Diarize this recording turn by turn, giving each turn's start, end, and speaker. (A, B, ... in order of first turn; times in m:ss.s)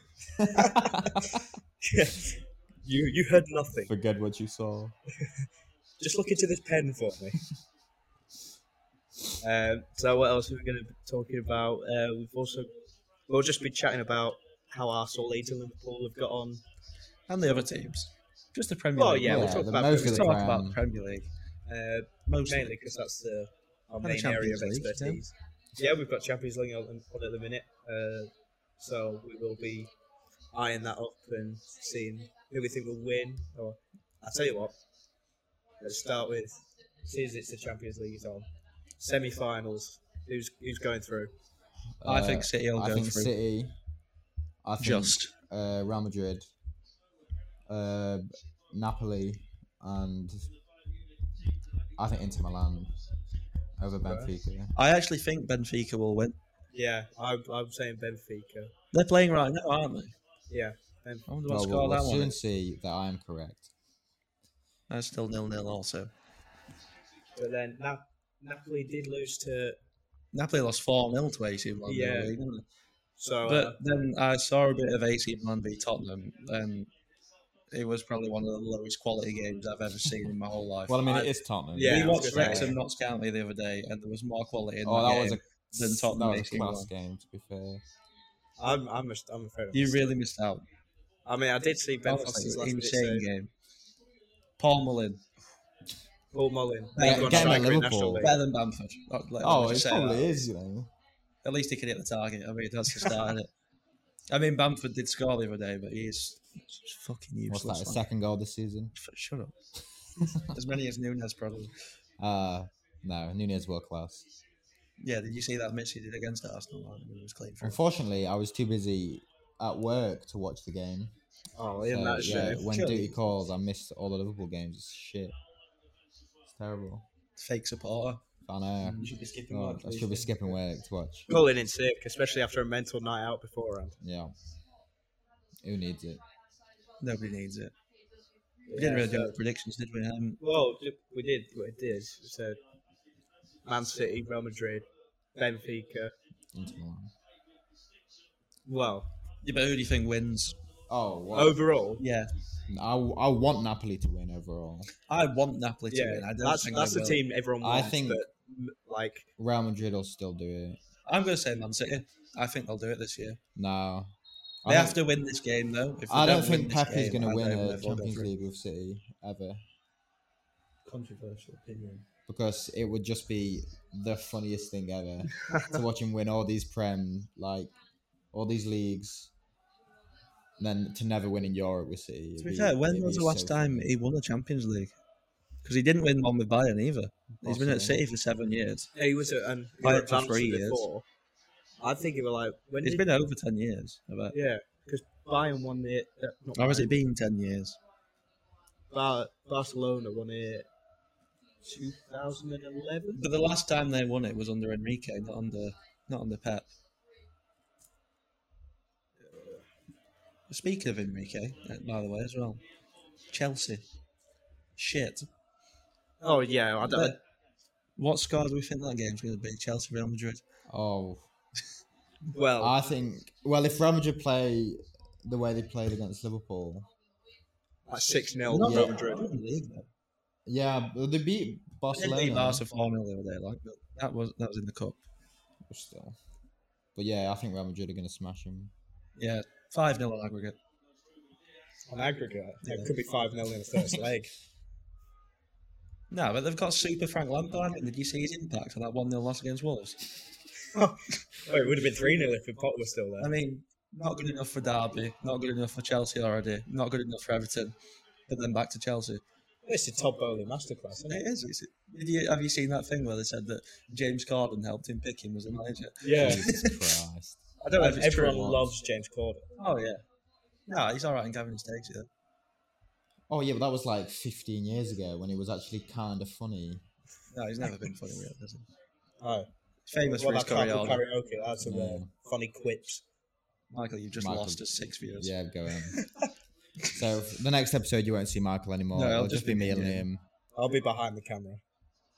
0:00.4-0:01.4 A
0:00.5-0:03.9 B
0:03.9-0:04.9 A
0:06.0-0:07.4 B
0:09.4-0:12.7 B
0:13.3-0:16.6 B
0:17.3-0:21.3 C
0:19.0-0:20.4 B
0:19.2-0:20.8 A
0:21.7-0:29.9 B
0:22.2-0:22.7 C
0:24.0-0:25.2 C
0:30.5-0:34.7 B
0:35.8-0:38.5 B
0:39.0-0:41.3 B
0:42.0-0:43.8 A
0:42.0-0:43.3 C
0:44.6-0:46.4 A
0:44.8-0:45.3 C
0:47.7-0:50.5 A
0:52.0-0:52.9 A
0:53.8-0:54.7 A
0:54.0-0:54.3 B
0:54.7-0:56.4 C
0:56.7-0:58.7 B
0:58.9-1:00.1 C
1:00.5-1:01.2 B
1:01.3-1:02.4 C
1:01.5-1:03.7 A
1:04.9-1:06.1 C
1:07.4-1:09.8 B
1:10.3-1:12.6 C
1:11.8-1:12.3 B
1:13.2-1:13.8 B
1:13.4-1:16.9 C
1:17.7-1:21.0 C
1:20.9-1:22.8 A
1:21.0-1:22.8 B
1:21.8-1:26.9 C
1:24.8-1:27.8 A
1:28.6-1:30.1 B
1:29.7-1:30.6 C
1:31.2-1:33.2 B
1:32.0-1:33.5 C
1:34.6-1:35.2 C
1:36.3-1:38.4 B
1:37.0-1:37.6 C
1:37.0-1:38.3 A
1:38.2-1:40.4 C
1:39.4-1:40.9 A
1:41.4-1:43.5 C
1:44.3-1:48.0 C
1:47.5-1:48.9 A
1:49.0-1:49.5 C
1:50.2-1:50.5 A
1:50.4-1:51.7 C
1:52.2-1:54.2 A
1:55.0-1:57.8 C
1:57.6-2:01.2 A
2:01.6-2:02.7 B
2:01.8-2:05.3 A
2:02.2-2:03.2 C
2:06.4-2:07.0 A
2:07.4-2:08.2 C
2:08.4-2:11.3 A
2:08.8-2:10.6 C
2:11.3-2:14.0 B
2:14.0-2:14.3 A
2:15.6-2:16.2 A
2:17.0-2:17.7 C
2:18.7-2:19.3 B
2:18.7-2:20.4 C
2:20.4-2:22.6 B
2:23.6-2:26.1 B
2:26.5-2:27.1 A
2:28.6-2:29.0 B
2:29.4-2:30.6 C
2:30.9-2:31.6 A
2:31.3-2:32.0 B
2:32.0-2:32.3 C
2:32.7-2:34.9 A
2:35.1-2:37.2 C
2:35.9-2:39.3 B
2:37.6-2:38.2 A
2:39.4-2:40.8 A
2:41.0-2:43.4 C
2:43.6-2:44.1 A
2:44.6-2:45.0 A
2:44.7-2:48.3 C
2:46.1-2:49.6 A
2:50.8-2:52.0 C
2:52.3-2:57.7 A
2:55.4-2:55.7 B
2:58.3-2:59.3 A
3:00.6-3:03.9 A
3:02.4-3:04.9 C
3:05.6-3:08.9 C
3:07.4-3:08.0 A
3:09.0-3:11.0 B
3:09.8-3:10.9 C
3:11.8-3:13.0 B
3:12.8-3:14.3 C
3:14.3-3:16.9 B
3:16.6-3:17.8 C
3:18.9-3:20.7 B
3:21.6-3:23.2 B
3:23.1-3:26.7 C
3:30.5-3:32.6 C
3:33.3-3:33.8 C
3:34.8-3:35.3 C
3:36.2-3:37.2 B
3:36.9-3:37.2 C
3:38.0-3:40.4 C
3:40.7-3:41.2 A
3:42.3-3:42.8 B
3:42.6-3:46.9 A
3:47.9-3:49.3 B
3:48.5-3:49.9 C
3:48.6-3:48.9 A
3:50.4-3:52.6 A
3:51.9-3:55.0 C
3:55.7-3:56.2 A
3:56.9-3:58.7 A
3:59.2-4:00.6 C
4:01.9-4:04.3 B
4:06.1-4:10.0 C
4:10.7-4:13.3 B
4:13.2-4:17.7 C
4:18.3-4:19.2 C
4:19.6-4:21.2 B
4:21.1-4:26.9 C
4:26.0-4:26.5 B
4:26.1-4:27.4 A
4:27.6-4:28.7 C
4:27.7-4:29.4 B
4:29.6-4:30.0 C
4:30.7-4:32.1 C
4:33.3-4:36.8 A
4:37.3-4:38.7 C
4:39.2-4:39.5 B
4:39.9-4:41.0 C
4:40.0-4:43.0 B
4:41.6-4:42.1 A
4:43.7-4:45.3 C
4:44.2-4:44.6 A
4:45.2-4:46.0 A
4:46.9-4:50.2 A
4:48.9-4:50.0 C
4:50.5-4:51.6 B